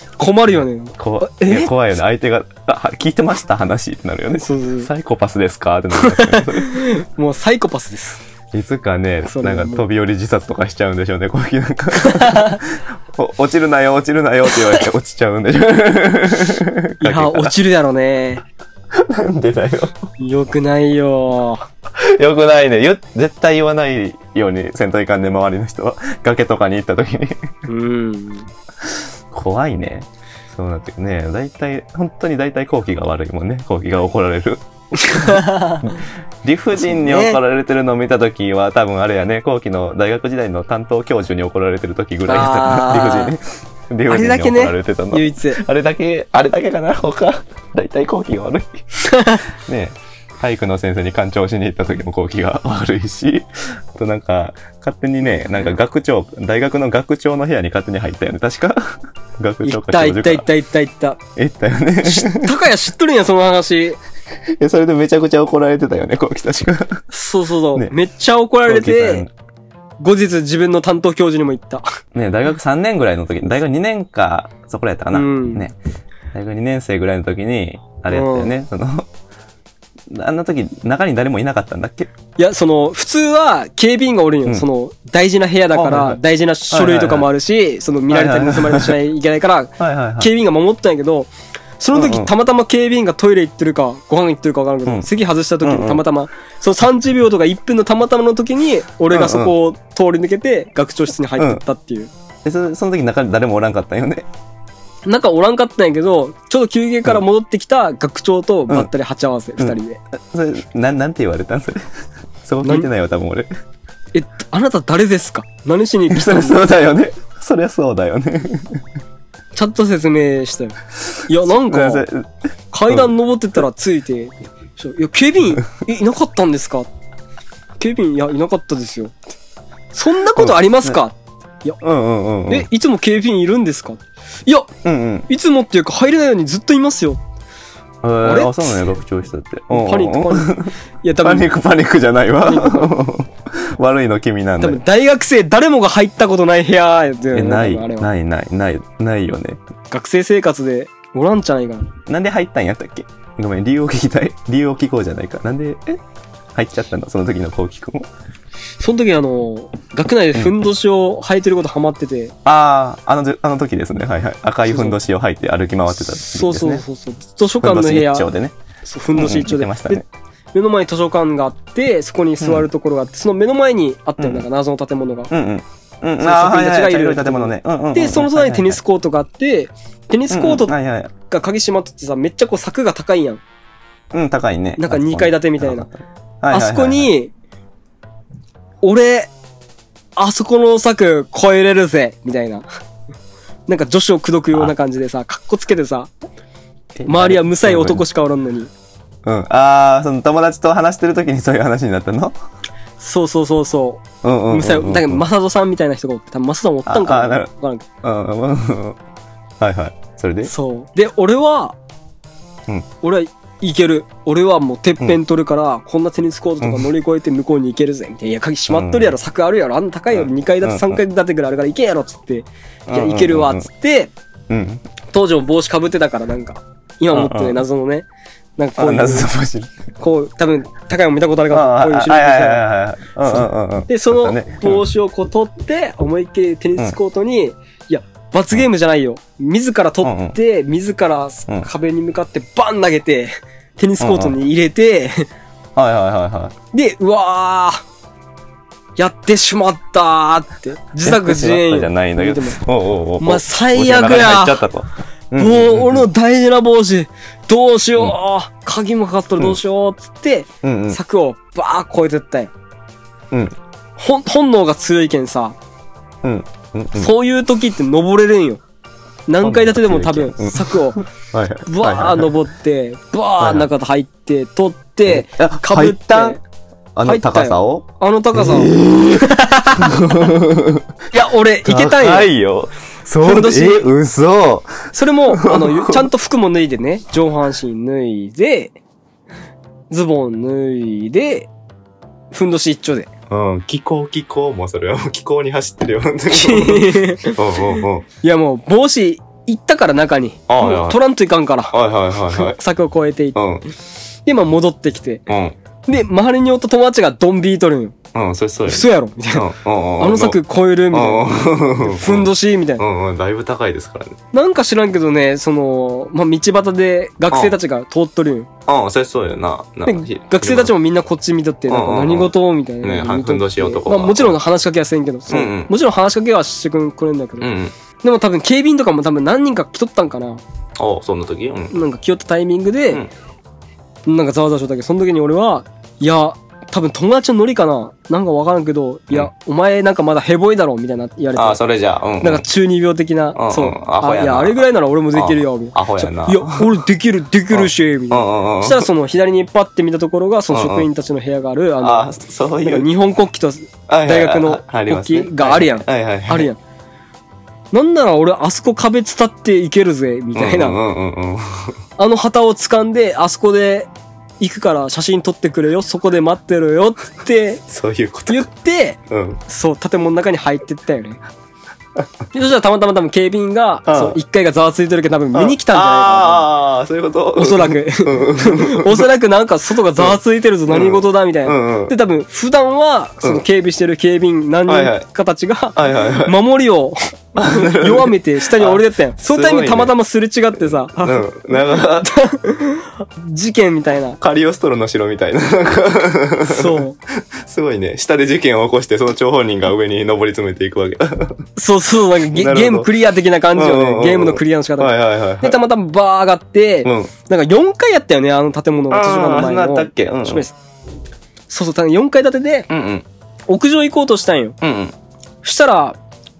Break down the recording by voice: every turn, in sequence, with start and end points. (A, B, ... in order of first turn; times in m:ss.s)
0:00.2-0:01.7 A
0:01.0-0:06.9 B
0:04.4-0:04.9 A
0:06.0-0:08.2 A
0:08.5-0:17.6 B
0:09.2-0:09.8 A
0:12.0-0:12.6 A
0:17.0-0:18.4 A
0:18.9-0:20.0 B
0:20.2-0:21.6 A
0:22.0-0:27.5 B
0:27.7-0:28.5 A
0:28.8-0:48.8 B
0:35.0-0:36.0 A
0:36.8-0:37.4 A
0:42.2-0:43.4 A
0:44.1-0:45.6 A
0:49.0-0:49.5 A
0:49.6-1:00.5 B
0:59.6-1:01.2 A
1:01.4-1:02.6 B
1:02.0-1:04.0 A
1:04.6-1:07.0 B
1:07.1-1:09.2 A
1:08.7-1:09.3 B
1:10.0-1:11.9 A
1:12.1-1:15.8 B
1:15.1-1:15.7 A
1:16.3-1:19.1 B
1:18.1-1:18.5 A
1:20.1-1:22.1 B
1:22.4-1:42.1 A
1:25.7-1:27.3 B
1:28.1-1:29.0 B
1:29.8-1:30.3 B
1:31.9-1:32.3 B
1:35.6-1:36.0 B
1:39.1-1:39.5 B
1:41.4-1:41.6 B
1:42.4-1:44.3 B
1:45.1-1:50.0 A
1:49.6-1:51.8 B
1:52.4-1:53.5 B
1:52.6-1:52.9 A
1:54.1-1:56.6 A
1:56.1-1:58.8 B
1:59.6-2:00.8 A
2:01.3-2:02.0 A
2:01.5-2:02.3 B
2:02.7-2:06.9 A
2:07.8-2:09.1 A
2:09.9-2:11.8 A
2:10.4-2:11.0 B
2:11.8-2:12.7 B
2:12.5-2:14.7 A
2:14.8-2:15.3 B
2:15.3-2:17.2 A
2:18.0-2:24.8 B
2:18.2-2:18.8 A
2:19.7-2:21.5 A
2:22.4-2:22.9 A
2:24.6-2:28.1 A
2:27.3-2:29.6 B
2:29.9-2:31.9 A
2:32.1-2:36.0 B
2:36.5-2:38.1 B
2:38.8-2:42.4 A
2:42.4-2:46.8 B
2:44.7-2:45.0 A
2:46.2-2:48.3 A
2:47.6-2:48.6 B
2:48.8-2:55.3 A
2:49.1-2:50.0 B
2:52.4-2:52.7 B
2:54.2-2:54.4 B
2:55.3-2:58.8 B
2:56.2-3:00.8 A
3:00.3-3:01.1 B
3:01.3-3:03.4 A
3:04.1-3:07.1 B
3:04.8-3:05.9 A
3:06.5-3:07.3 A
3:08.8-3:09.3 A
3:10.2-3:12.6 A
3:13.7-3:16.1 A
3:17.0-3:18.0 B
3:17.1-3:18.7 A
3:19.2-3:22.4 B
3:23.0-3:27.8 A
3:24.2-3:25.2 B
3:26.9-3:27.5 B
3:28.0-3:29.0 B
3:29.6-3:30.5 B
3:30.4-3:31.8 A
3:33.0-3:44.1 A
3:36.6-3:36.9 B
3:38.7-3:39.1 B
3:40.1-3:41.0 B
3:42.9-3:43.7 B
3:44.5-3:44.8 B
3:45.1-3:48.1 A
3:47.1-3:47.6 B
3:48.6-3:49.3 A
3:48.8-3:49.7 B
3:50.0-3:52.7 A
3:51.5-3:54.8 B
3:53.2-4:05.3 A
4:00.0-4:00.4 B
4:04.0-4:04.4 B
4:05.8-4:06.6 B
4:06.7-4:07.8 A
4:09.0-4:12.6 A
4:11.0-4:16.1 B
4:13.2-4:14.6 A
4:15.4-4:22.5 A
4:20.6-4:21.0 B
4:23.3-4:23.6 B
4:24.0-4:25.6 A
4:26.2-4:27.1 B
4:27.0-4:28.6 A
4:29.3-4:31.0 A
4:29.4-4:32.3 B
4:31.6-4:36.4 A
4:33.4-4:33.7 B
4:35.1-4:36.4 B
4:37.0-4:40.9 B
4:37.0-4:40.3 A
4:41.1-4:42.3 A
4:41.6-4:46.1 B
4:43.2-4:43.9 A
4:44.9-4:48.8 A
4:49.9-4:51.5 A
4:52.3-4:53.1 A
4:53.3-4:58.1 B
4:56.3-5:01.8 A
5:00.5-5:01.0 B
5:01.7-5:02.6 B
5:02.3-5:03.4 A
5:03.4-5:03.6 B
5:04.2-5:05.2 A
5:05.3-5:05.6 B
5:05.9-5:08.0 A
5:08.1-5:14.2 B
5:08.7-5:09.5 A
5:10.0-5:12.8 A
5:14.3-5:18.5 A
5:17.3-5:17.6 B
5:18.7-5:20.7 B
5:19.9-5:30.4 A
5:21.7-5:24.4 B
5:25.3-5:25.7 B
5:27.4-5:27.8 B
5:30.8-5:31.8 B
5:31.7-5:33.0 A
5:34.1-5:41.6 A
5:41.4-5:42.4 B
5:42.2-5:52.1 A
5:43.4-5:46.8 B
5:47.5-5:48.9 B
5:50.5-5:50.9 B
5:51.8-5:52.9 B
5:52.6-5:56.6 A
5:53.9-5:56.5 B
5:57.7-6:00.8 A
6:00.3-6:01.8 B
6:02.0-6:03.9 A
6:04.4-6:07.6 A
6:07.7-6:08.5 B
6:08.3-6:11.2 A
6:09.1-6:09.4 B
6:12.3-6:16.5 A
6:13.9-6:14.2 B
6:15.3-6:19.1 B
6:17.4-6:34.2 A
6:20.0-6:22.0 B
6:24.7-6:25.1 B
6:25.8-6:26.4 B
6:27.4-6:29.9 B
6:31.0-6:32.1 B
6:34.2-6:36.8 B
6:36.5-6:37.0 A
6:37.4-6:41.4 B
6:41.6-6:50.6 A
6:42.3-6:42.9 B
6:43.5-6:45.6 B
6:46.8-6:47.1 B
6:48.9-6:50.5 B
6:51.5-6:52.7 A
6:52.7-6:53.1 B
6:53.5-6:54.6 A
6:54.6-6:55.0 B
6:55.4-6:56.0 A